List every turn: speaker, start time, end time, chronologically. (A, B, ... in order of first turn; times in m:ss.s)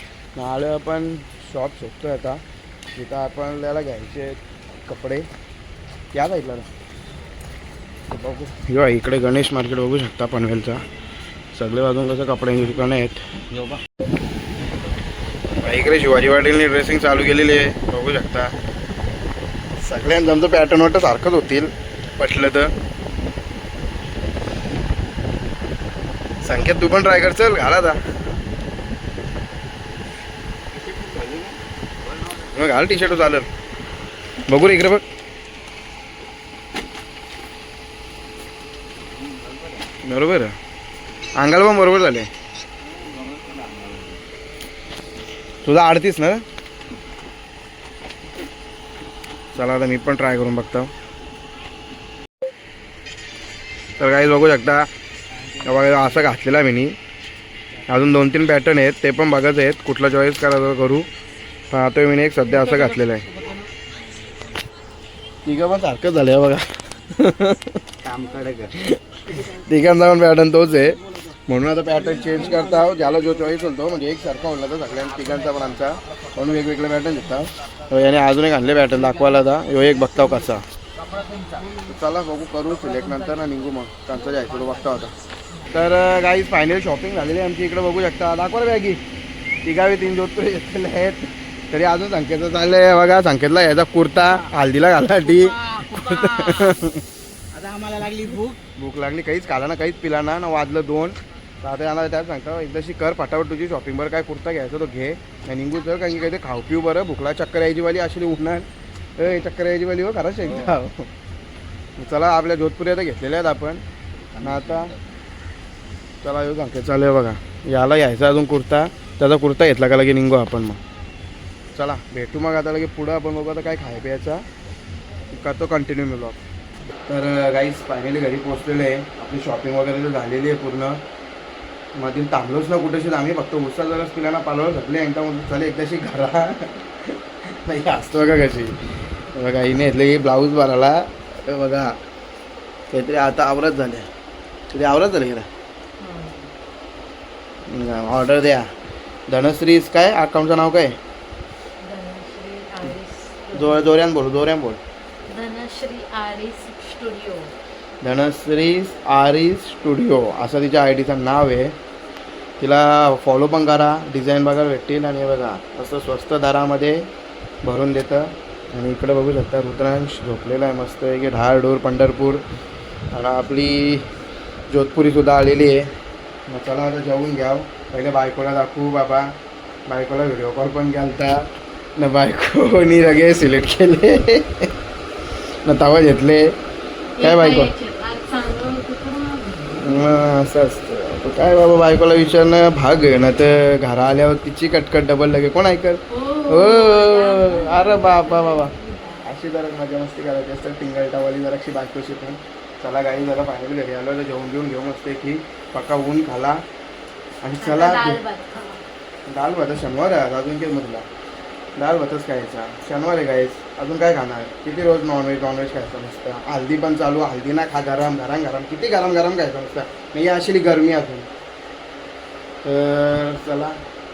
0:00.4-0:02.4 A
0:03.0-0:05.3 A
0:06.1-0:06.7 A
0:08.1-0:10.8 A
0:11.5-0:13.8 A
0:15.6-0:18.5 A
0:19.8-0:22.7 A
0:26.4-0:28.0 A
0:30.8-0:31.5 B
0:32.4-0:33.5 A
0:34.5-0:35.0 A
0:39.4-0:39.7 B
0:40.0-0:40.5 A
0:41.4-0:42.3 A
0:43.1-0:44.1 B
0:45.6-0:46.4 A
0:49.5-0:50.9 A
0:54.0-0:54.8 A
0:55.6-0:57.0 A
0:57.9-1:01.1 A
1:01.7-1:03.2 A
1:05.4-1:07.7 A
1:08.1-1:08.7 B
1:08.8-1:20.6 A
1:21.8-1:25.1 A
1:25.7-1:29.0 A
1:29.6-1:37.0 A
1:35.8-1:36.5 B
1:37.6-1:38.6 B
1:38.8-1:51.1 A
1:52.0-1:53.8 A
1:54.4-1:54.9 A
1:56.2-2:00.8 A
2:01.7-2:04.4 A
2:05.3-2:06.4 A
2:07.1-2:11.0 A
2:12.0-2:18.8 A
2:19.3-2:22.0 A
2:22.9-2:24.1 A
2:24.7-2:25.5 A
2:26.0-2:26.5 C
2:27.7-2:28.6 A
2:29.3-2:31.0 A
2:31.8-2:33.9 C
2:33.5-2:34.8 A
2:35.3-2:37.5 C
2:38.0-2:41.7 A
2:42.6-2:47.0 A
2:47.6-2:52.4 A
2:53.1-2:54.1 A
2:54.7-2:55.9 A
2:56.5-2:59.2 A
2:59.9-3:04.7 A
3:05.6-3:06.4 A
3:07.2-3:10.0 C
3:07.2-3:07.7 A
3:09.7-3:26.6 A
3:16.1-3:19.3 C
3:27.4-3:28.2 A
3:27.6-3:28.9 C
3:29.3-3:31.1 A
3:31.8-3:41.3 A
3:42.6-3:43.8 A